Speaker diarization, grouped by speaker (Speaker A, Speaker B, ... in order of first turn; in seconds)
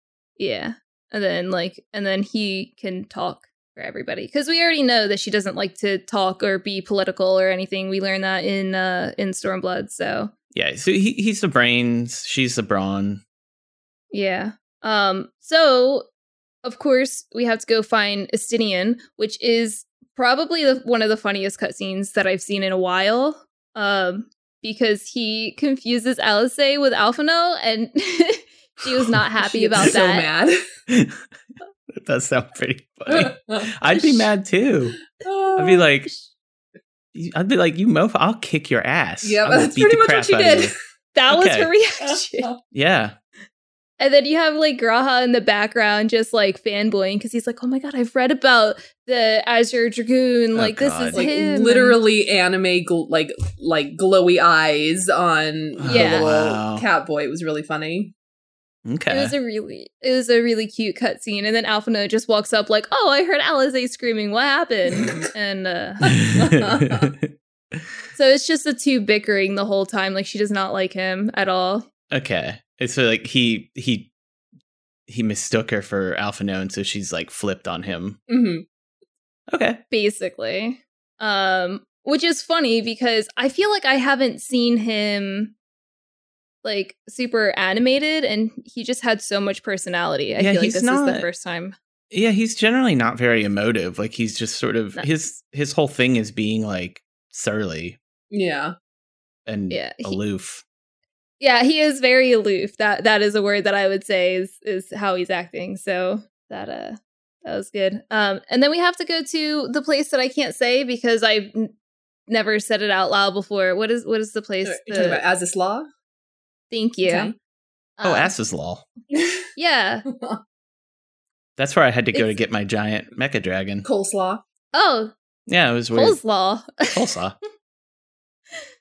Speaker A: 0.4-10.3, 14.1-16.1, 16.6-30.3, 41.1-42.5, 44.0-52.0, 55.9-56.3, 59.1-66.1, 68.1-71.9, 79.9-85.5, 86.6-91.8, 99.7-100.2, 101.4-111.7, 112.3-115.2, 116.7-117.3, 118.0-118.3, 119.6-120.0, 124.7-125.1, 125.9-127.0
Speaker B: 10.5-13.2, 30.9-31.3, 31.9-35.0, 35.6-36.1, 37.1-40.7, 41.3-41.7, 42.7-43.2, 50.5-51.2, 55.8-56.9, 58.9-59.3, 66.1-67.9, 72.1-74.1, 75.1-78.2, 79.5-79.8, 90.4-91.3, 92.1-98.0, 99.5-100.6, 118.0-118.9, 121.6-123.9, 125.5-126.2, 126.9-127.4
Speaker C: 29.4-30.6, 33.1-34.3, 35.1-35.8, 39.2-40.8, 51.1-58.1, 66.4-67.1, 78.3-78.7, 98.3-98.8, 114.6-115.9, 117.0-117.3, 119.1-119.4, 120.1-120.4, 123.8-124.4